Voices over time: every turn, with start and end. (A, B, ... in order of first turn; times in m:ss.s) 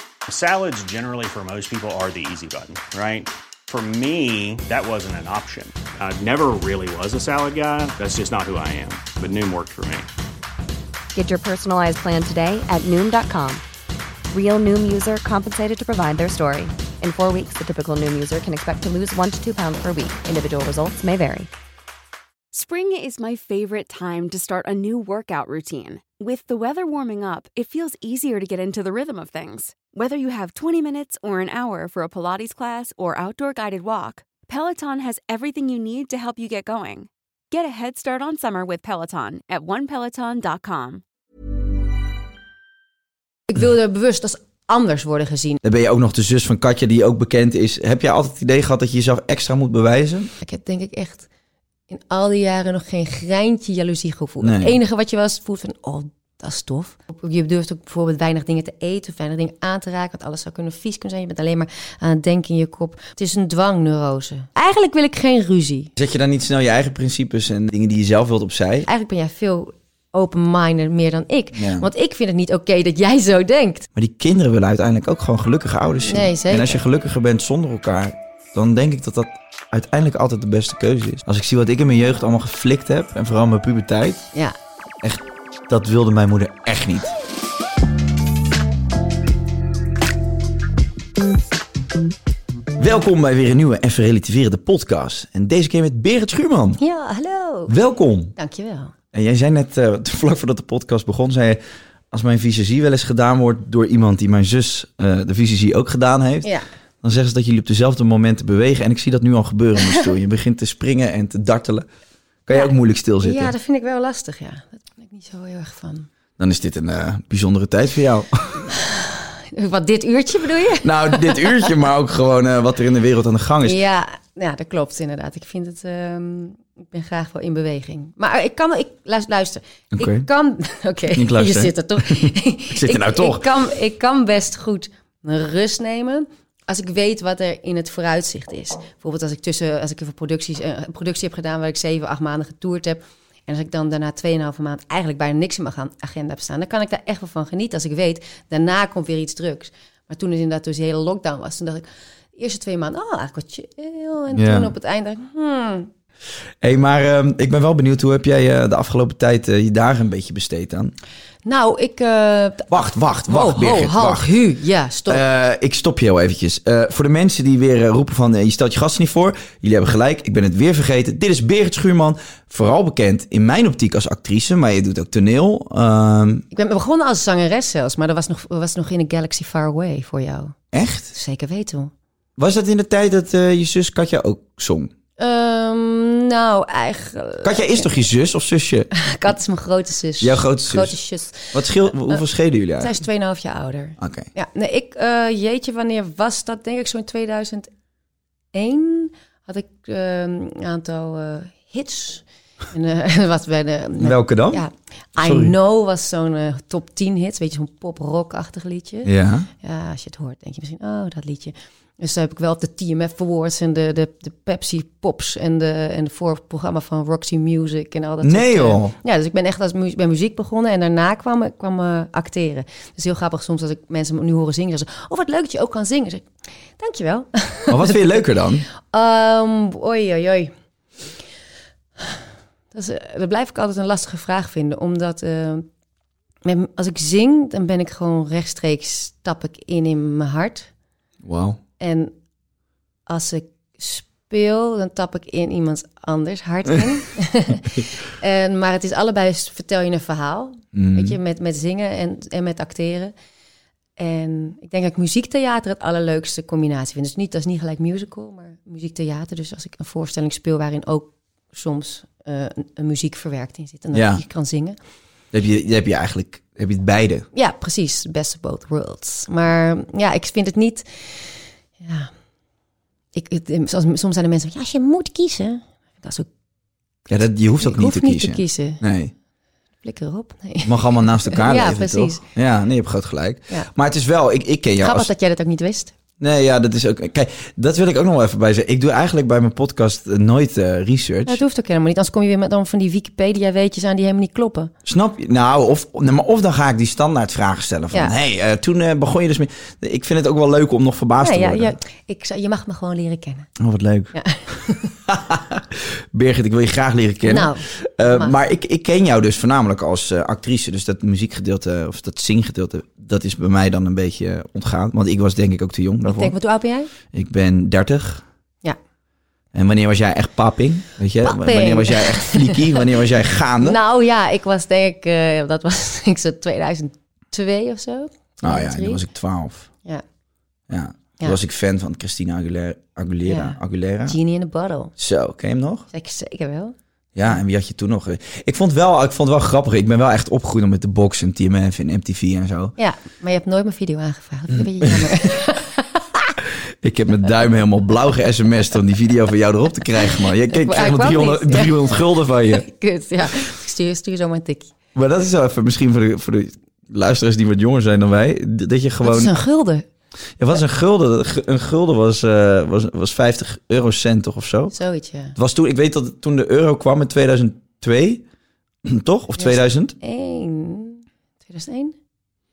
0:00.3-0:10.1 A
0:11.1-0:13.6 B
0:14.3-0:21.5 B
0:22.5-0:41.0 C
0:43.5-0:45.6 D
0:45.6-0:50.3 E
0:50.4-0:51.3 D
0:51.9-1:05.9 D
0:54.4-0:54.8 E
1:06.0-1:08.9 E
1:08.9-1:13.9 D
1:11.6-1:11.9 E
1:14.0-1:24.3 E
1:16.0-1:16.8 D
1:25.0-1:27.2 E
1:32.8-1:36.8 E
1:36.8-1:37.7 D
1:37.7-1:38.4 E
1:38.4-1:38.9 D
1:39.1-1:41.6 E
1:42.1-1:46.5 E
1:47.0-1:51.9 E
1:52.5-1:53.5 E
1:52.5-1:56.1 D
1:56.4-1:58.6 E
1:58.9-2:01.7 D
2:00.8-2:03.8 E
2:03.6-2:35.9 D
2:10.0-2:10.3 E
2:11.1-2:13.5 E
2:34.3-2:34.7 E
2:36.6-2:40.9 E
2:41.5-2:45.2 D
2:42.7-2:44.3 E
2:45.1-2:56.4 E
2:56.5-3:00.6 D
3:00.7-3:01.1 E
3:01.1-3:01.9 D
3:02.4-3:04.9 E
3:05.2-3:07.9 D
3:07.4-3:08.9 E
3:09.0-3:12.2 D
3:10.2-3:13.0 E
3:12.8-3:17.7 D
3:14.0-3:14.3 E
3:18.5-3:46.2 D
3:24.0-3:24.6 E
3:25.2-3:25.5 E
3:29.0-3:29.5 E
3:38.2-3:39.0 E
3:46.8-3:48.0 D
3:47.7-3:48.7 E
3:48.9-3:50.5 D
3:52.7-3:55.7 D
3:56.4-4:00.7 D
4:01.2-4:01.6 E
4:01.8-4:02.1 D
4:03.1-4:13.1 D
4:10.7-4:11.2 E
4:14.0-4:24.8 D
4:23.9-4:24.2 E
4:25.3-4:27.3 E
4:27.3-4:32.1 D
4:33.2-4:36.3 D
4:37.1-4:38.8 D
4:37.1-4:39.1 E
4:39.8-4:42.2 D
4:40.6-4:45.1 E
4:44.8-4:45.9 D
4:46.2-4:51.4 E
4:51.3-4:54.7 D
4:54.8-5:01.8 E
5:01.2-5:03.5 D
5:03.6-5:16.4 E
5:04.1-5:04.9 D
5:07.3-5:08.3 D
5:16.1-5:16.9 D
5:17.1-5:18.2 E
5:19.5-5:23.8 E
5:21.2-5:22.8 D
5:23.6-5:29.0 D
5:28.4-5:29.7 E
5:30.7-5:34.2 E
5:33.3-5:34.9 D
5:35.0-5:35.9 E
5:35.9-5:36.8 D
5:37.2-5:42.8 E
5:42.8-5:46.0 D
5:44.5-5:45.1 E
5:46.8-5:52.7 E
5:50.5-5:51.9 D
5:52.5-5:54.7 D
5:55.0-5:59.3 E
5:59.0-5:59.8 D
6:00.4-6:04.8 E
6:04.7-6:05.4 D
6:05.4-6:08.2 E
6:08.8-6:10.0 E
6:09.4-6:12.0 D